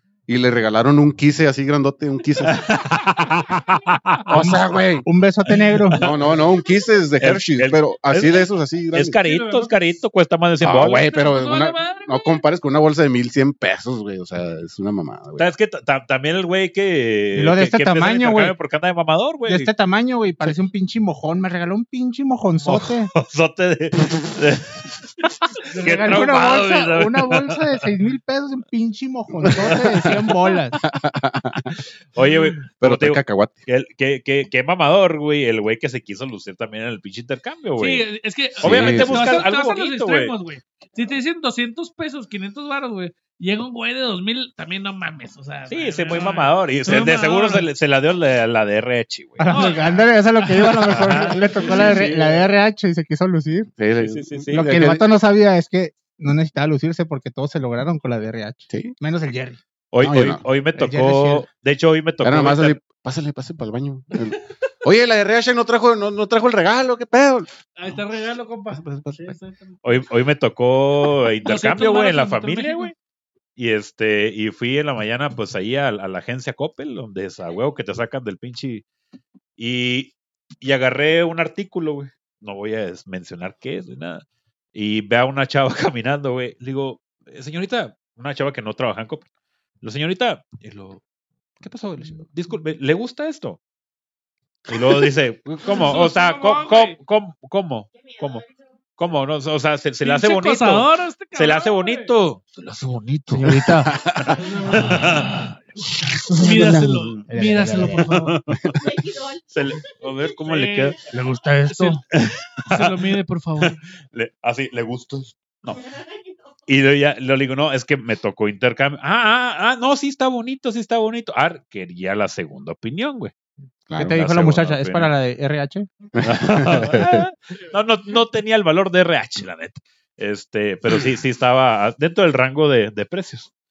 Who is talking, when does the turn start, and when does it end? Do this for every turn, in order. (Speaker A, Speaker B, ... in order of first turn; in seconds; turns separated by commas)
Speaker A: 0.3-2.8, Speaker B: 2.5-4.4, Speaker A: 4.3-5.1, Speaker C: 4.3-6.0, Speaker B: 5.5-6.3, Speaker A: 6.0-9.2, Speaker B: 7.2-11.1, Speaker D: 9.2-10.0, Speaker A: 10.6-15.5, Speaker D: 11.1-12.4, Speaker B: 15.4-19.7, Speaker C: 17.3-18.6, Speaker C: 19.5-23.1, Speaker B: 22.6-27.7, Speaker D: 25.7-26.3, Speaker C: 25.8-30.8, Speaker A: 29.4-30.1, Speaker A: 30.8-31.8, Speaker B: 32.1-38.1, Speaker A: 32.8-33.6, Speaker D: 37.8-47.7, Speaker B: 38.6-40.3, Speaker A: 38.6-39.3, Speaker B: 45.7-50.0, Speaker C: 49.4-53.7, Speaker D: 49.5-52.0, Speaker B: 50.8-52.5, Speaker A: 53.8-55.1, Speaker B: 54.0-54.9, Speaker C: 54.5-59.6, Speaker B: 59.9-62.8, Speaker A: 60.0-60.4, Speaker C: 60.8-61.5, Speaker A: 62.2-67.5, Speaker D: 67.8-69.8, Speaker A: 68.7-69.3, Speaker B: 69.8-72.9, Speaker D: 71.5-72.9, Speaker B: 73.6-78.8, Speaker B: 79.6-89.2, Speaker B: 89.8-91.0, Speaker B: 91.6-93.6, Speaker B: 94.7-105.5, Speaker D: 95.6-97.0, Speaker D: 100.0-102.1, Speaker C: 103.3-103.9, Speaker A: 103.9-104.4, Speaker D: 104.4-105.6, Speaker C: 106.3-108.2, Speaker D: 106.3-108.4, Speaker B: 108.0-111.0, Speaker D: 110.5-111.0, Speaker C: 111.1-112.0, Speaker D: 111.7-112.0, Speaker B: 112.1-115.9, Speaker D: 112.7-113.8, Speaker B: 116.7-123.3, Speaker A: 123.9-124.2, Speaker C: 124.0-125.9, Speaker B: 124.1-125.1, Speaker A: 126.1-127.2, Speaker B: 126.2-133.5